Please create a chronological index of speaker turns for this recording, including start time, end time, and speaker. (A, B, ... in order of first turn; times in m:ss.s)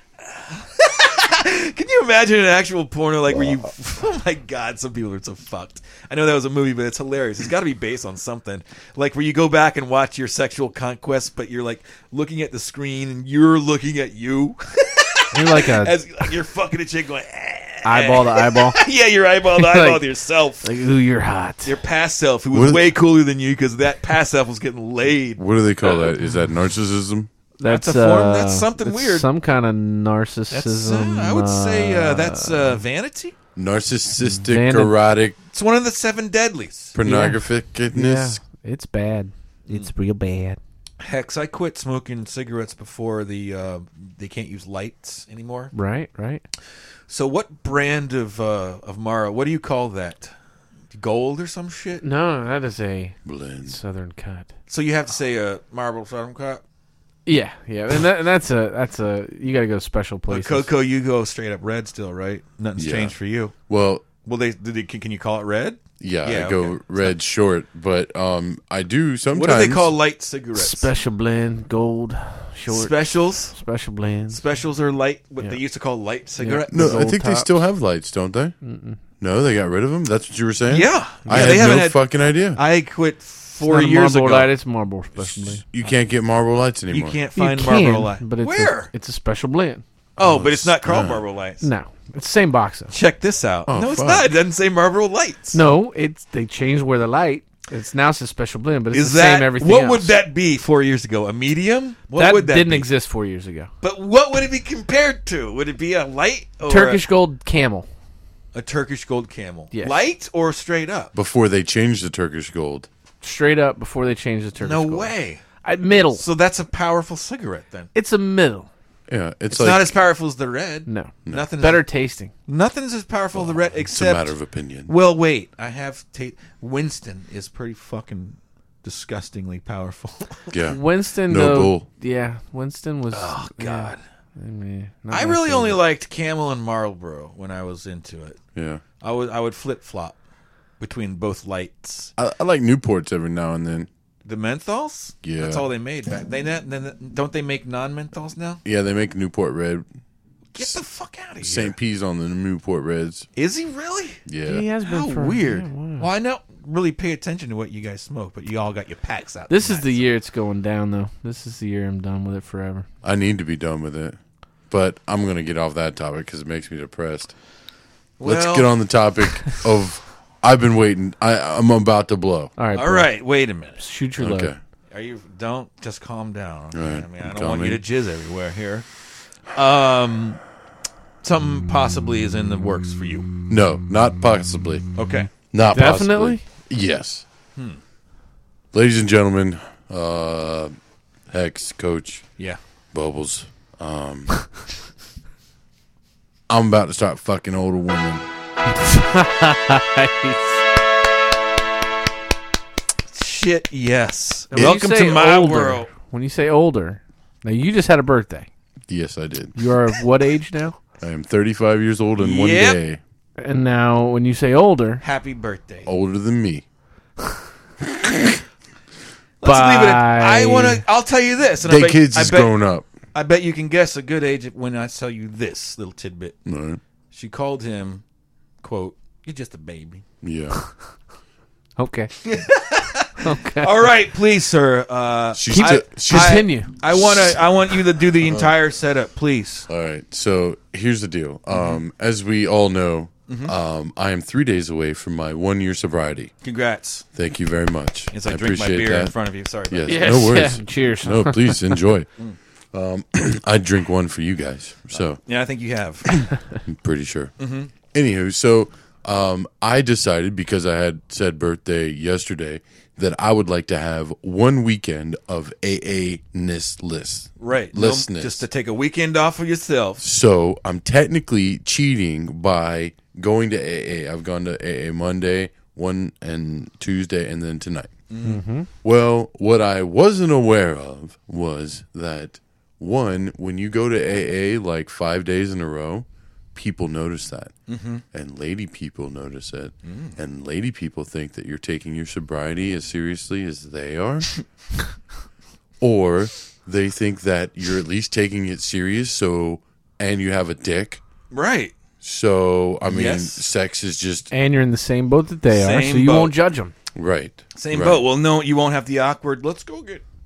0:00.2-0:20.7 A
0:15.3-0:16.0 B
0:17.8-0:18.8 B
0:19.6-0:20.0 B
0:20.6-0:21.8 B
0:21.6-0:26.1 A
0:22.5-0:22.8 C
0:25.4-0:27.3 C
0:27.6-0:32.8 B
0:27.6-0:29.3 A
0:30.5-0:33.4 A
0:33.6-0:35.4 C
0:34.2-0:35.0 B
0:35.5-0:37.0 A
0:36.9-0:38.4 C
0:37.0-0:40.6 B
0:41.0-0:45.7 A
0:45.7-0:46.4 B
0:47.1-0:50.3 A
0:50.9-0:52.0 A
0:52.0-0:54.5 B
0:53.2-0:53.8 C
0:54.7-0:56.6 A
0:57.3-1:00.7 B
1:00.3-1:03.6 A
1:02.8-1:03.2 C
1:03.7-1:04.0 C
1:04.2-1:07.1 A
1:06.0-1:09.9 C
1:09.3-1:10.9 A
1:10.6-1:14.4 B
1:12.7-1:13.6 A
1:14.3-1:17.1 A
1:16.4-1:17.6 B
1:16.7-1:18.6 C
1:18.6-1:19.0 B
1:19.2-1:22.6 C
1:20.7-1:24.5 A
1:21.2-1:21.8 B
1:23.6-1:25.6 B
1:25.2-1:27.2 C
1:26.9-1:28.9 A
1:27.4-1:29.8 B
1:30.2-1:31.2 C
1:30.2-1:31.6 A
1:31.6-1:32.9 B
1:32.9-1:35.6 A
1:33.7-1:34.3 C
1:35.5-1:40.2 B
1:38.9-1:42.9 A
1:42.2-1:43.7 B
1:43.8-1:47.0 A
1:46.7-1:47.9 B
1:48.5-1:51.1 A
1:51.2-1:52.9 C
1:53.2-1:55.1 B
1:54.6-1:55.4 A
1:55.6-1:56.2 B
1:56.1-1:57.9 A
1:58.0-1:58.7 B
1:59.1-2:00.0 C
1:59.5-2:01.8 A
2:00.9-2:02.3 B
2:02.5-2:10.6 A
2:03.4-2:04.9 C
2:10.5-2:11.9 C
2:10.7-2:15.8 B
2:13.1-2:14.0 A
2:15.1-2:18.4 A
2:18.6-2:18.8 C
2:19.0-2:20.2 A
2:20.8-2:22.1 A
2:22.2-2:23.9 C
2:24.2-2:28.6 A
2:25.2-2:25.7 C
2:28.6-2:29.9 C
2:30.6-2:31.7 A
2:31.4-2:33.3 C
2:33.4-2:34.2 A
2:34.3-2:34.6 C
2:34.4-2:36.1 B
2:34.8-2:40.1 A
2:39.5-2:42.9 B
2:43.0-2:44.2 C
2:44.7-2:47.3 C
2:48.2-2:48.8 A
2:48.2-2:52.5 C
2:52.6-2:53.2 B
2:52.7-2:53.8 A
2:53.8-2:54.5 B
2:54.2-2:54.6 C
2:54.9-2:58.9 A
2:56.7-2:57.8 C
2:59.5-3:00.4 A
3:01.2-3:03.4 A
3:03.5-3:04.9 C
3:05.0-3:05.3 A
3:05.5-3:07.2 C
3:05.7-3:06.4 B
3:08.7-3:10.7 C
3:11.3-3:12.3 C
3:12.9-3:14.4 C
3:16.5-3:18.3 C
3:18.7-3:20.6 B
3:23.1-3:25.9 A
3:24.5-3:28.5 B
3:28.9-3:29.6 C
3:29.6-3:30.8 B
3:31.0-3:33.0 C
3:32.2-3:32.8 A
3:33.4-3:35.0 B
3:35.0-3:35.9 A
3:35.9-3:36.6 C
3:37.8-3:38.4 C
3:39.4-3:42.6 A
3:39.4-3:40.8 B
3:41.6-3:42.9 C
3:43.1-3:46.4 A
3:46.5-3:46.8 C
3:47.1-3:48.0 A
3:48.6-3:50.0 A
3:50.2-3:50.6 C
3:51.8-3:52.1 B
3:52.2-3:59.7 A
3:53.2-3:53.9 B
3:55.4-3:57.4 C
3:55.5-3:56.7 B
3:58.3-3:58.5 C
3:59.7-4:06.3 C
4:01.5-4:01.8 A
4:03.3-4:03.6 A
4:06.4-4:07.1 A
4:07.2-4:09.1 C
4:08.1-4:10.3 A
4:09.7-4:12.1 C
4:09.9-4:11.8 B
4:12.7-4:15.2 C
4:14.9-4:16.2 A
4:16.2-4:17.3 C
4:17.4-4:17.7 A
4:17.9-4:28.4 C
4:27.4-4:30.0 A
4:30.0-4:37.9 C
4:38.1-4:38.4 A
4:38.2-4:38.7 B
4:38.8-4:47.5 C
4:47.7-4:48.0 A
4:48.1-4:54.3 C
4:49.8-4:50.2 A
4:55.8-5:01.0 C
5:01.3-5:01.7 A
5:02.0-5:04.3 C
5:02.8-5:03.4 A
5:04.3-5:06.7 B
5:05.5-5:06.3 A
5:07.0-5:08.0 C
5:07.6-5:10.0 A